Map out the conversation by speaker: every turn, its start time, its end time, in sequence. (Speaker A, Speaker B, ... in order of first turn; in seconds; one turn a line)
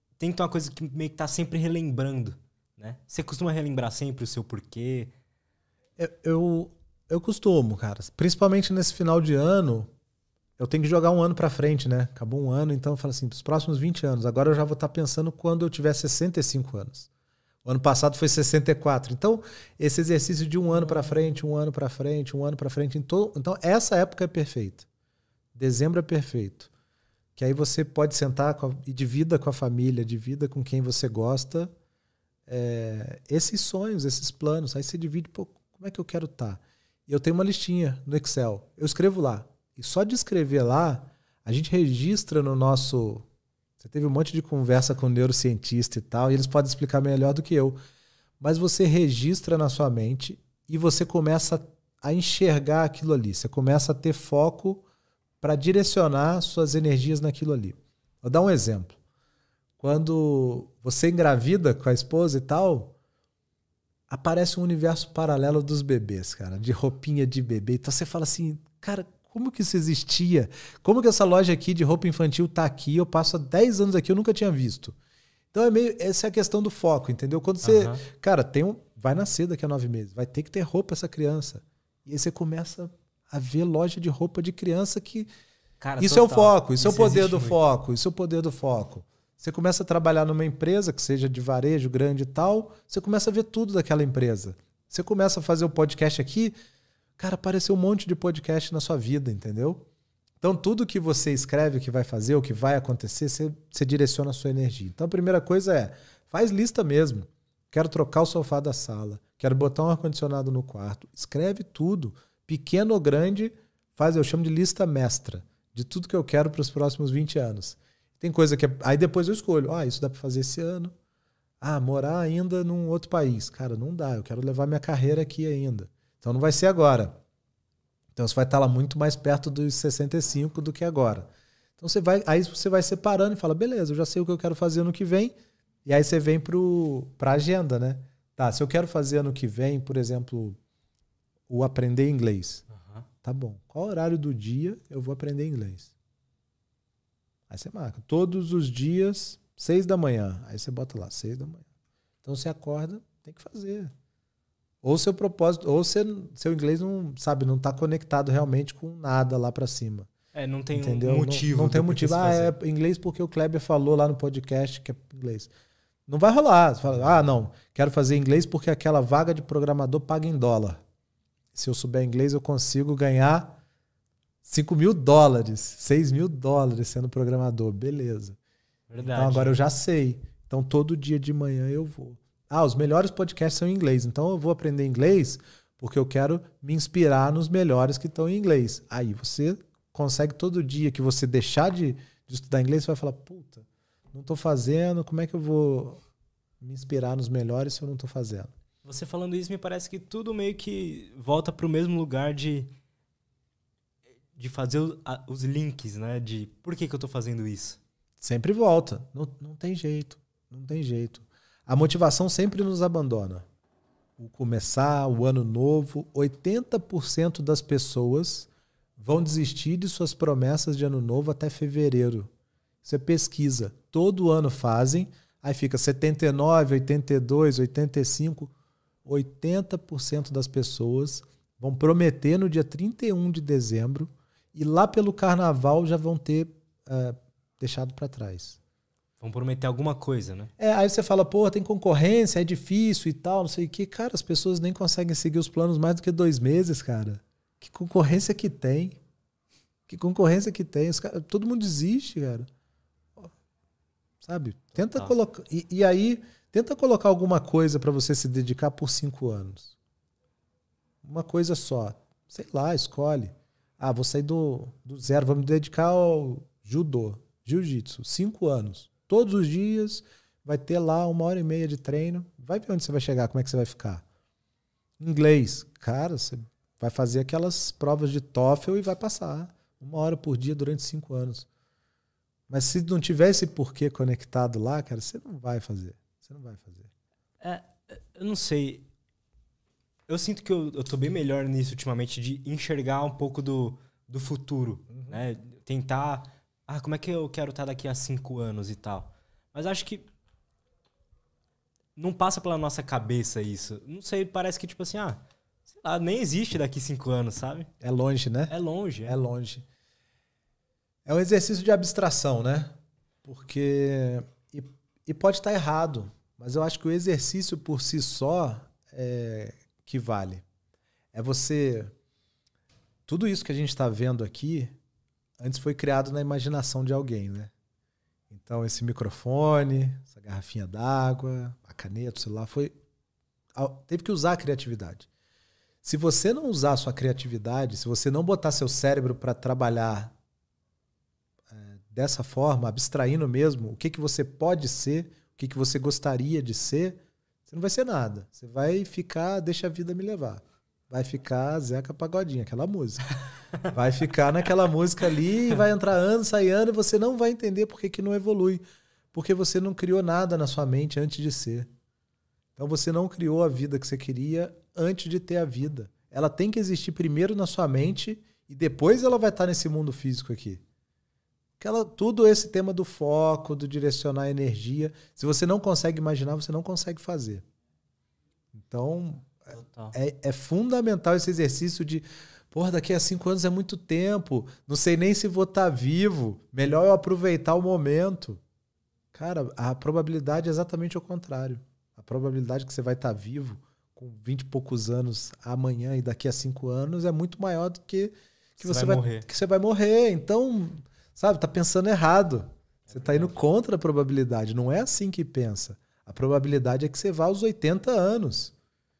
Speaker A: 0.2-5.1
Speaker B: 6.0-9.9
Speaker B: 10.6-17.1
Speaker B: 17.6-24.9
Speaker B: 25.5-26.7
Speaker B: 27.4-31.7
Speaker B: 32.5-43.2
Speaker B: 43.8-47.8
Speaker B: 48.4-54.8
Speaker B: 55.4-59.0
Speaker B: 59.8-63.0
Speaker B: 64.1-75.0
Speaker B: 75.5-85.3
Speaker A: 77.6-78.0
Speaker A: 85.8-87.6
Speaker B: 86.0-96.5
Speaker B: 97.2-99.8
Speaker B: 100.4-120.9
Speaker B: 121.6-127.2
Speaker B: 128.2-140.6
Speaker B: 141.5-142.6
Speaker A: 142.7-143.1
Speaker B: 143.2-145.9
Speaker B: 147.5-151.7
Speaker B: 152.2-153.9
Speaker B: 154.8-160.1
Speaker A: 160.3-162.5
Speaker B: 160.7-165.5
Speaker B: 166.1-170.8
Speaker A: 166.9-167.1
Speaker B: 171.5-173.6
Speaker B: 174.4-178.4
Speaker A: 178.9-179.6
Speaker B: 179.0-196.0
Speaker B: 196.6-198.5
Speaker A: 198.8-202.7
Speaker A: 204.3-207.8
Speaker B: 208.2-213.4
Speaker B: 214.2-222.3
Speaker B: 222.8-228.5
Speaker B: 229.1-238.6
Speaker A: 239.2-240.5
Speaker B: 240.6-249.0
Speaker B: 249.9-252.5
Speaker B: 254.2-259.8
Speaker A: 254.9-255.1
Speaker B: 261.0-274.0
Speaker B: 275.0-281.5
Speaker B: 282.5-286.9
Speaker A: 287.4-288.8
Speaker A: 290.1-300.1
Speaker B: 294.9-295.2
Speaker A: 301.9-307.7
Speaker B: 307.8-308.6
Speaker A: 308.5-309.2
Speaker B: 309.1-309.7
Speaker B: 311.1-320.4
Speaker B: 321.1-321.9
Speaker B: 323.1-324.7
Speaker B: 325.4-327.5
Speaker B: 328.3-332.7
Speaker B: 333.6-335.1
Speaker B: 335.8-340.1
Speaker B: 341.5-353.1
Speaker B: 353.7-361.7
Speaker B: 362.6-370.6
Speaker B: 371.6-377.4
Speaker B: 378.5-388.4
Speaker A: 379.5-379.9
Speaker B: 389.1-408.5
Speaker A: 398.6-399.3
Speaker A: 402.9-403.3